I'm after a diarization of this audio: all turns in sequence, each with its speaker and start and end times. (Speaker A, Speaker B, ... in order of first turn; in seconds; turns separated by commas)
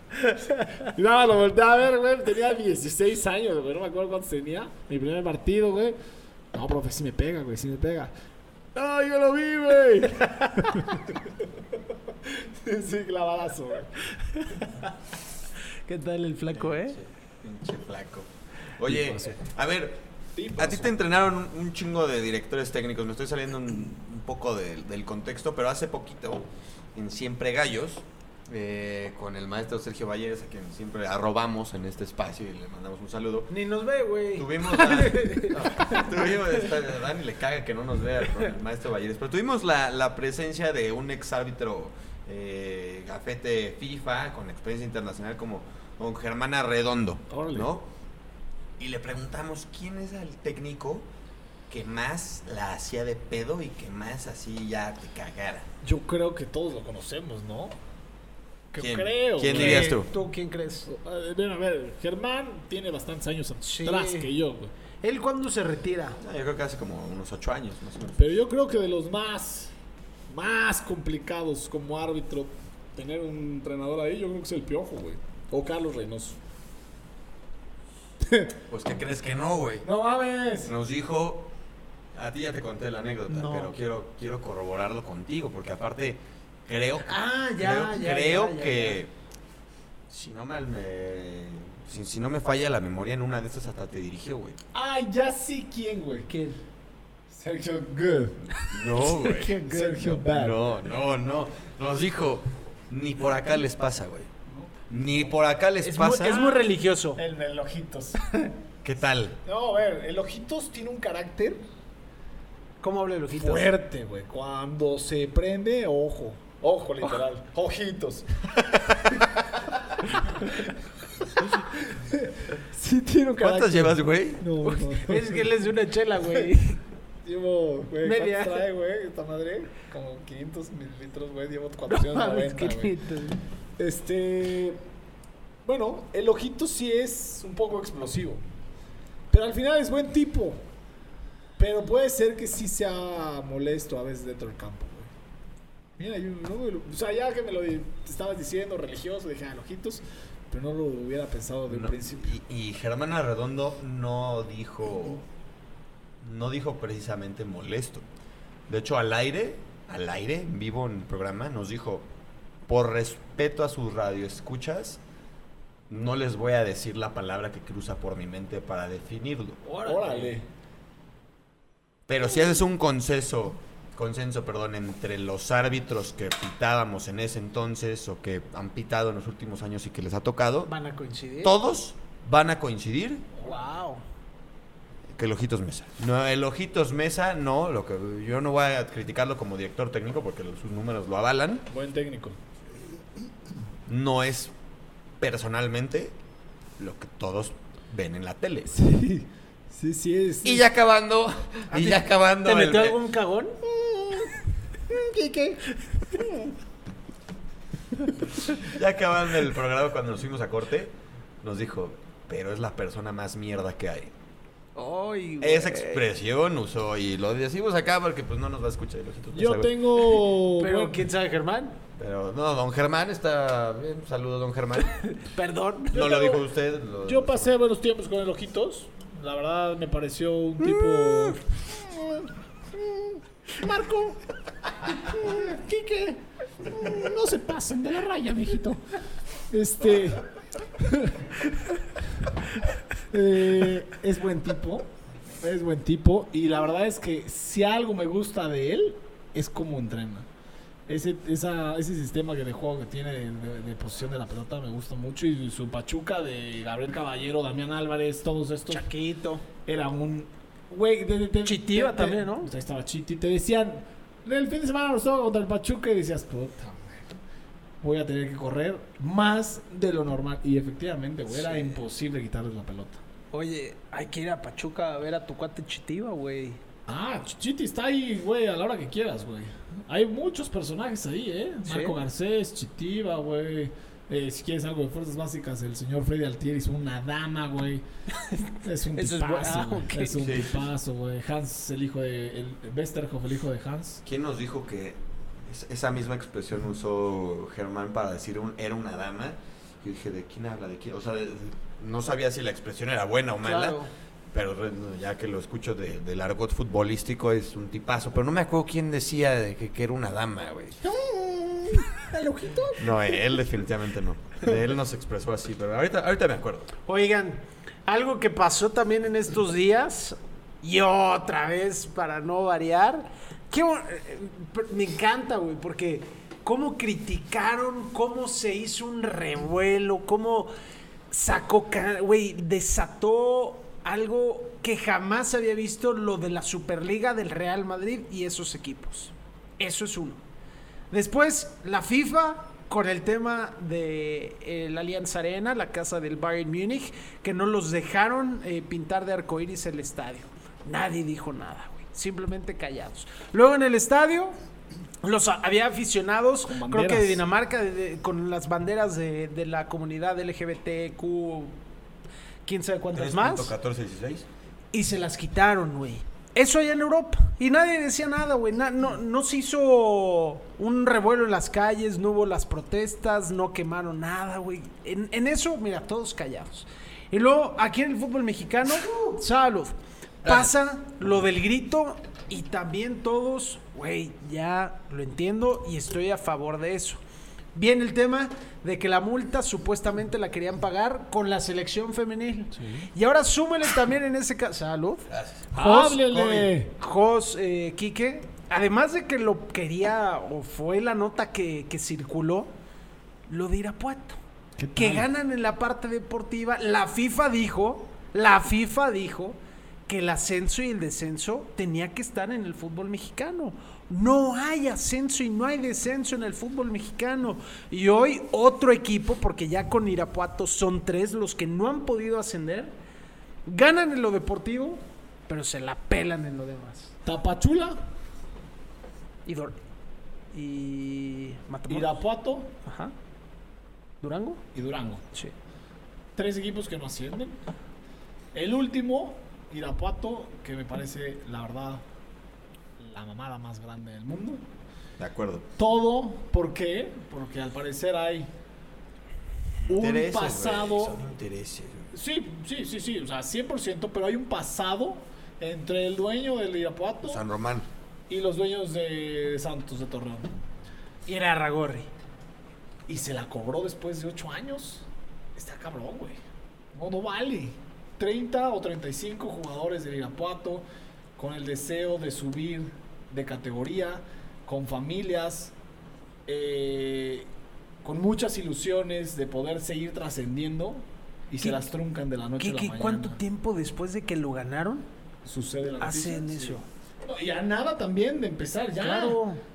Speaker A: 0.9-6.0, Speaker A: 6.5-8.1, Speaker A: 8.8-11.4, Speaker B: 10.4-10.8, Speaker A: 12.1-13.9, Speaker B: 14.1-14.7, Speaker B: 15.9-17.0, Speaker C: 16.6-20.0, Speaker A: 18.9-19.3, Speaker A: 20.4-21.0, Speaker C: 20.6-33.5, Speaker B: 33.5-36.0, Speaker C: 34.4-47.9, Speaker A: 47.3-47.7, Speaker C: 48.8-51.1, Speaker C: 51.7-55.7, Speaker A: 55.8-57.8, Speaker A: 58.7-60.0, Speaker C: 58.8-60.1, Speaker B: 59.5-60.9, Speaker A: 60.9-64.7, Speaker B: 63.6-64.3, Speaker B: 65.0-66.2, Speaker C: 66.2-68.3, Speaker A: 68.2-69.7, Speaker A: 70.3-76.4, Speaker A: 78.2-78.6, Speaker C: 78.7-79.9, Speaker A: 79.8-80.7, Speaker C: 80.7-81.5, Speaker C: 82.2-89.1, Speaker B: 83.3-83.7, Speaker B: 87.0-89.0, Speaker C: 90.1-94.6, Speaker A: 94.7-96.3, Speaker B: 96.3-96.6, Speaker A: 97.3-98.5, Speaker C: 98.5-104.3, Speaker B: 98.8-100.0, Speaker A: 99.2-100.7, Speaker A: 104.5-105.3, Speaker C: 104.9-106.5, Speaker B: 105.8-107.2, Speaker A: 106.3-106.7, Speaker A: 107.2-108.2, Speaker C: 108.8-109.4, Speaker A: 109.4-111.6, Speaker B: 112.8-113.7, Speaker A: 113.4-125.5, Speaker C: 123.4-124.5, Speaker B: 124.6-126.8, Speaker A: 127.2-133.0, Speaker B: 128.0-128.7, Speaker B: 131.9-133.4, Speaker A: 133.8-134.8, Speaker A: 135.6-138.4, Speaker A: 139.3-140.6, Speaker A: 141.6-145.1, Speaker A: 146.0-152.4, Speaker C: 151.7-155.2, Speaker C: 156.2-158.0, Speaker C: 158.7-162.1, Speaker C: 162.7-165.0, Speaker C: 165.9-169.6, Speaker B: 169.7-170.4, Speaker A: 169.8-170.5, Speaker C: 172.1-180.7, Speaker B: 180.7-181.6, Speaker C: 181.4-183.2, Speaker B: 183.4-184.0, Speaker C: 185.1-191.7, Speaker A: 191.7-192.4, Speaker C: 193.9-194.5, Speaker C: 195.2-196.1, Speaker C: 196.8-198.7, Speaker A: 198.7-200.7, Speaker C: 200.4-203.0, Speaker B: 201.7-203.6, Speaker A: 203.7-204.3, Speaker A: 204.9-205.6, Speaker B: 205.9-206.3, Speaker C: 208.4-214.1, Speaker B: 214.8-216.1, Speaker C: 215.4-220.1, Speaker A: 219.3-221.1, Speaker B: 220.6-221.8, Speaker C: 222.0-225.0, Speaker B: 224.9-226.4, Speaker C: 225.9-227.5, Speaker A: 226.1-226.4, Speaker A: 227.1-234.2, Speaker B: 230.6-231.4, Speaker A: 234.8-238.8, Speaker A: 239.5-240.3, Speaker A: 240.8-241.3, Speaker A: 243.1-244.9, Speaker A: 245.4-250.3, Speaker A: 250.9-258.9, Speaker B: 258.7-259.4, Speaker A: 259.6-267.1, Speaker B: 261.4-262.5, Speaker A: 267.8-273.0, Speaker B: 273.3-276.6, Speaker A: 276.9-287.8, Speaker B: 281.7-282.0, Speaker B: 288.1-290.3, Speaker A: 288.6-294.0, Speaker C: 290.2-290.7, Speaker C: 294.1-303.8, Speaker B: 303.4-303.9, Speaker C: 304.3-310.8, Speaker A: 310.8-313.2, Speaker C: 312.8-316.7, Speaker B: 316.9-330.5, Speaker B: 331.1-340.2, Speaker B: 340.9-354.4, Speaker B: 355.0-361.6, Speaker A: 356.5-357.2, Speaker B: 362.5-363.5, Speaker C: 362.9-364.3, Speaker B: 364.7-387.0, Speaker C: 380.2-380.5, Speaker B: 387.6-402.5, Speaker A: 392.5-392.9, Speaker C: 395.1-395.5, Speaker A: 395.5-396.7, Speaker C: 396.2-396.5, Speaker B: 403.3-404.2, Speaker A: 404.6-405.1, Speaker B: 404.8-422.8, Speaker B: 423.5-426.9, Speaker A: 427.1-427.8, Speaker B: 429.3-429.6, Speaker B: 430.3-432.0, Speaker A: 431.7-432.5, Speaker B: 432.6-432.9, Speaker B: 434.0-434.4, Speaker A: 434.5-435.1, Speaker A: 436.1-437.4, Speaker A: 438.3-441.8, Speaker A: 442.8-444.5, Speaker C: 445.0-445.4, Speaker A: 445.6-448.3, Speaker A: 449.7-451.0, Speaker C: 449.7-451.9, Speaker A: 451.9-457.2, Speaker C: 457.1-457.7, Speaker A: 458.1-460.4, Speaker B: 461.1-461.9, Speaker A: 462.9-466.2, Speaker A: 466.7-470.6, Speaker A: 471.2-475.5, Speaker A: 476.3-477.3, Speaker A: 477.8-483.2, Speaker B: 481.4-481.7, Speaker B: 482.4-484.9, Speaker A: 485.2-489.2, Speaker B: 485.8-486.6, Speaker B: 488.8-489.4